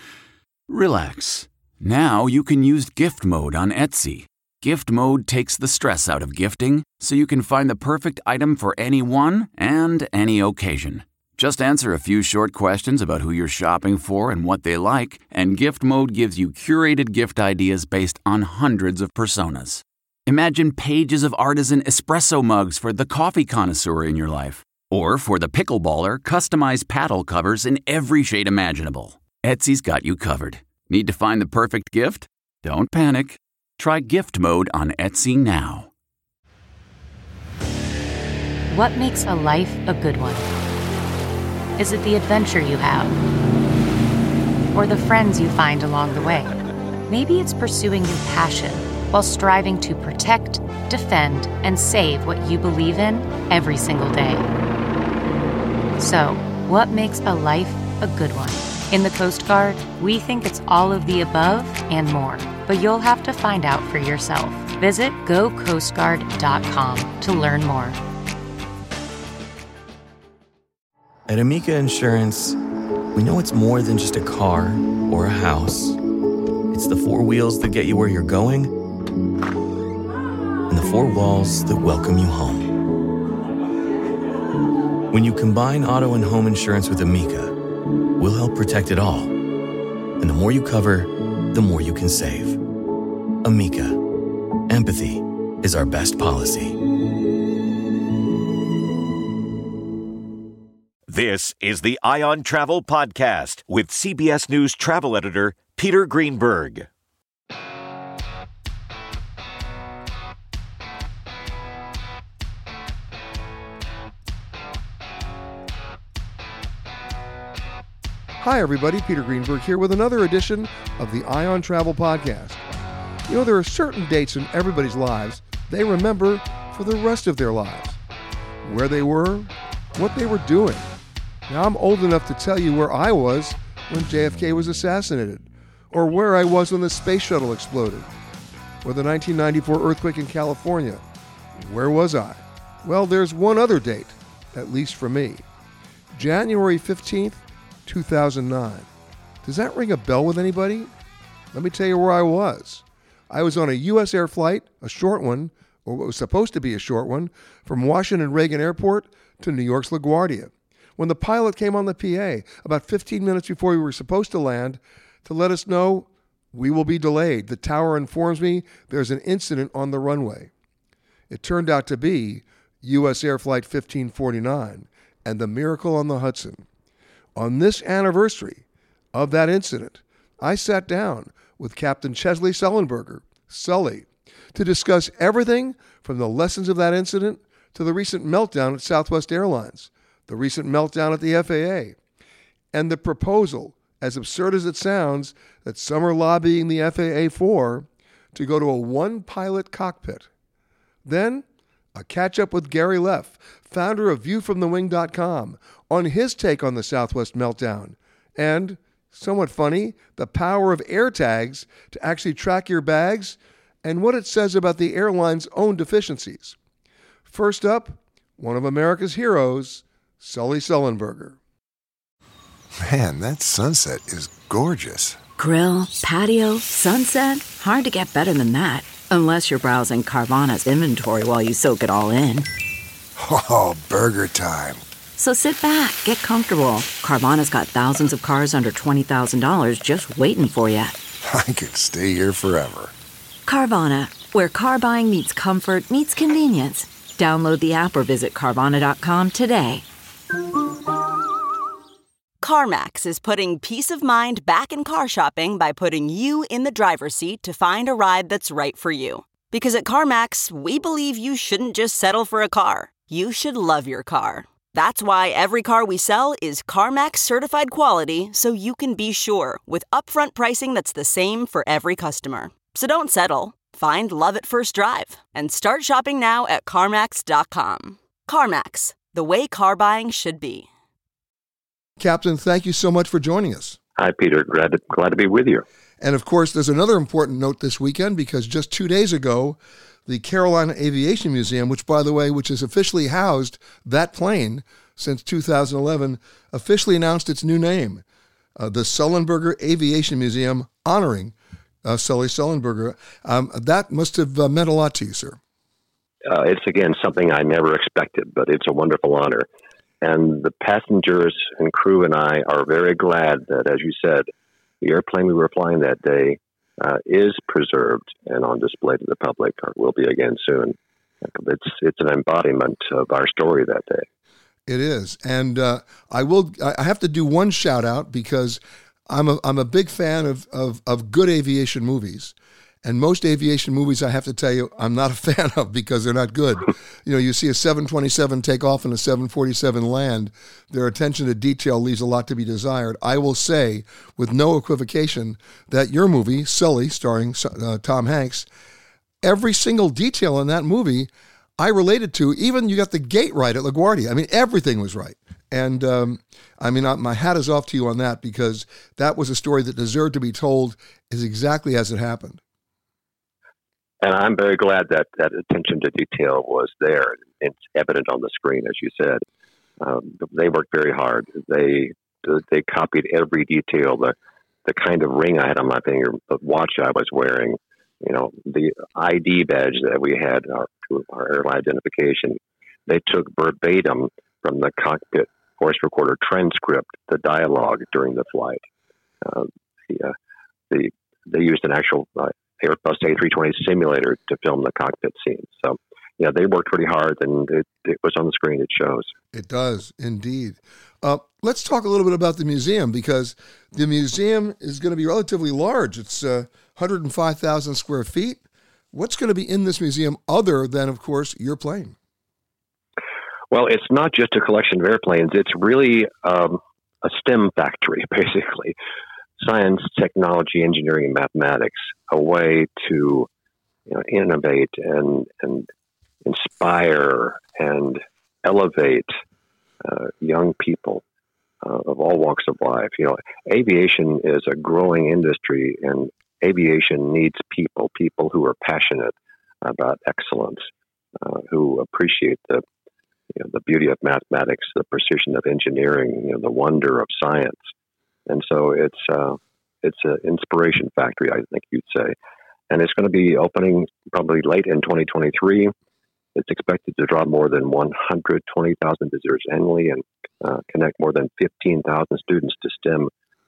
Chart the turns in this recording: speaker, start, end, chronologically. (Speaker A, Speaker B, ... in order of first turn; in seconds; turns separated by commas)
Speaker A: 0.7-35.9, Speaker B: 38.7-40.5, Speaker B: 41.8-43.1, Speaker B: 44.7-46.5, Speaker B: 47.1-54.5, Speaker B: 56.0-68.0, Speaker C: 71.3-72.6, Speaker C: 73.1-76.0, Speaker C: 76.7-78.7, Speaker C: 80.7-82.8, Speaker C: 85.1-87.6, Speaker C: 88.2-89.3, Speaker C: 90.2-92.6, Speaker C: 93.4-94.0, Speaker C: 94.7-96.8, Speaker D: 101.1-106.9, Speaker E: 118.4-122.6, Speaker E: 123.3-128.0, Speaker E: 128.6-130.9, Speaker E: 131.5-138.1, Speaker E: 138.8-141.0, Speaker E: 141.6-145.4, Speaker E: 146.1-148.9, Speaker E: 149.4-150.9, Speaker E: 151.5-170.5, Speaker E: 171.3-176.6, Speaker E: 177.3-191.9, Speaker E: 192.7-200.3, Speaker E: 201.0-216.6, Speaker E: 217.3-221.4, Speaker F: 222.8-225.2, Speaker G: 225.4-232.5, Speaker F: 233.2-234.8, Speaker G: 235.2-241.0, Speaker F: 241.2-242.9, Speaker G: 243.4-249.8, Speaker H: 252.4-280.7, Speaker E: 282.0-283.8, Speaker I: 284.0-285.6, Speaker E: 286.0-298.0, Speaker E: 298.6-301.3, Speaker E: 301.8-305.4, Speaker I: 306.2-309.5, Speaker I: 310.0-314.3, Speaker I: 314.8-324.1, Speaker E: 324.7-348.5, Speaker E: 349.2-362.4, Speaker I: 364.0-369.2, Speaker I: 369.8-374.1, Speaker I: 374.6-388.6, Speaker I: 389.2-390.1, Speaker I: 390.7-399.1, Speaker E: 399.3-408.4, Speaker E: 408.9-411.9, Speaker I: 413.5-418.7, Speaker I: 419.4-423.3, Speaker I: 423.9-425.7, Speaker I: 426.2-429.1, Speaker I: 429.8-431.0, Speaker I: 431.6-440.7, Speaker I: 441.2-442.6, Speaker I: 443.3-447.6, Speaker I: 448.3-452.1, Speaker I: 452.7-455.7, Speaker I: 456.3-463.1